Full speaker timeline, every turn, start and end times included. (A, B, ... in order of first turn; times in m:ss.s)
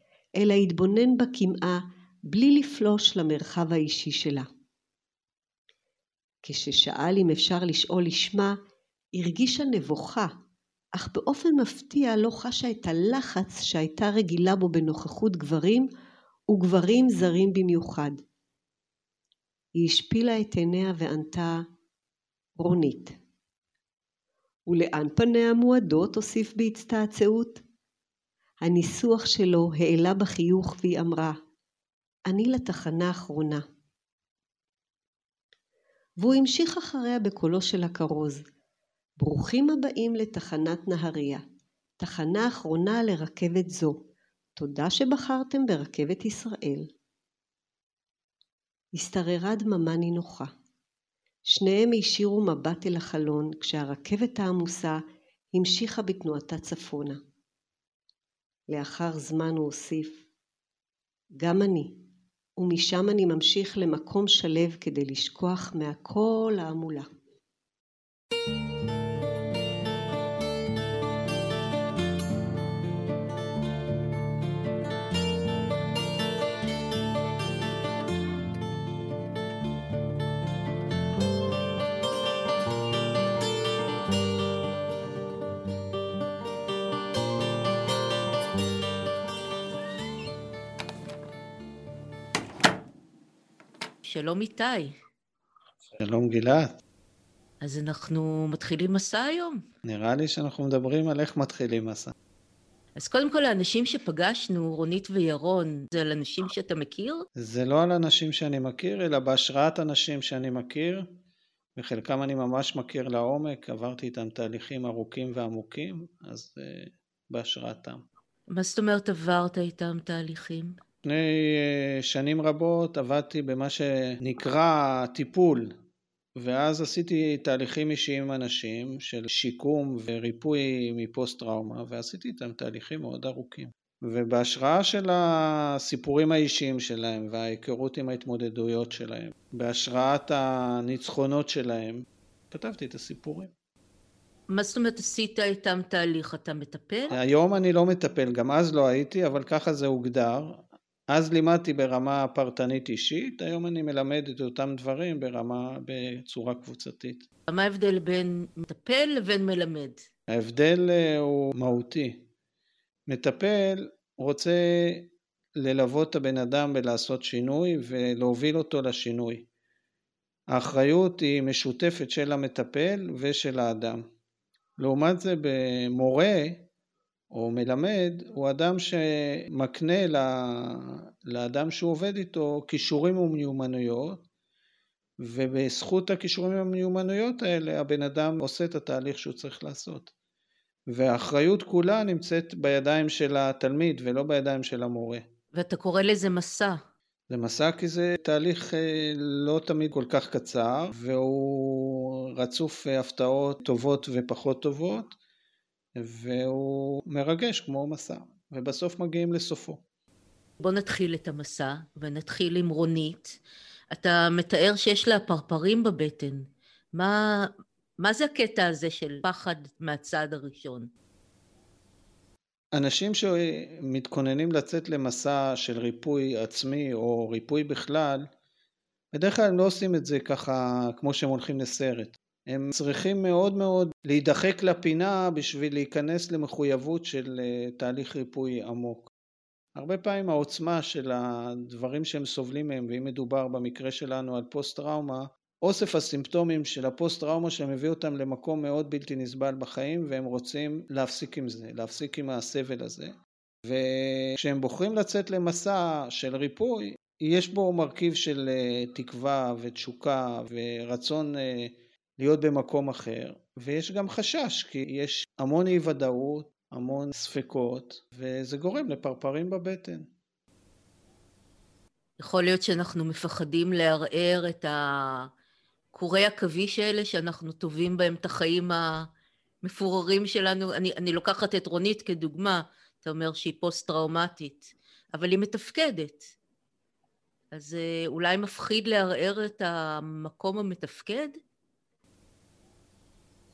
0:00.4-0:04.5 A
0:06.4-0:08.6 A
0:09.1-0:10.4 A
0:11.0-0:15.9 A
0:16.5-0:18.2 A
0:19.8-0:21.6 A
0:22.6-0:23.2 A
0:24.7-0:27.6 A
0:28.6-0:31.4 A
0:32.3-0:33.6 A
0:36.2-0:38.4 A
0:39.2-0:41.4 A
0:42.0-0:44.0 A
0:44.6-0:46.9 A
0:49.0-0:50.5 A
0:51.4-0:55.0 A
0:55.5-0:57.2 A
0:58.7-1:00.2 A
1:01.4-1:02.0 A
1:02.6-1:07.1 A
1:34.0-1:35.0 B
1:36.0-1:36.8 C
1:37.6-1:39.6 B
1:39.8-1:42.1 C
1:43.0-1:47.3 B
1:47.4-1:51.1 C
1:51.8-1:58.0 C
1:58.5-2:00.8 B
2:01.0-2:05.7 C
2:06.4-2:23.5 C
2:24.5-2:27.2 B
2:27.1-2:37.2 C
2:37.5-2:40.0 B
2:40.3-2:42.2 C
2:43.1-2:49.5 C
2:50.5-2:54.0 C
2:54.8-2:56.6 C
2:57.3-3:04.2 C
3:05.2-3:10.1 C
3:10.9-3:15.2 C
3:15.6-3:16.8 B
3:17.3-3:25.1 C
3:26.0-3:29.8 C
3:30.6-3:33.4 B
3:33.9-3:40.9 B
3:42.7-3:48.3 C
3:49.1-3:59.1 C
3:59.8-4:30.1 C
4:32.2-4:35.3 B
4:35.9-4:39.1 B
4:39.6-4:46.3 B
4:47.5-4:51.4 B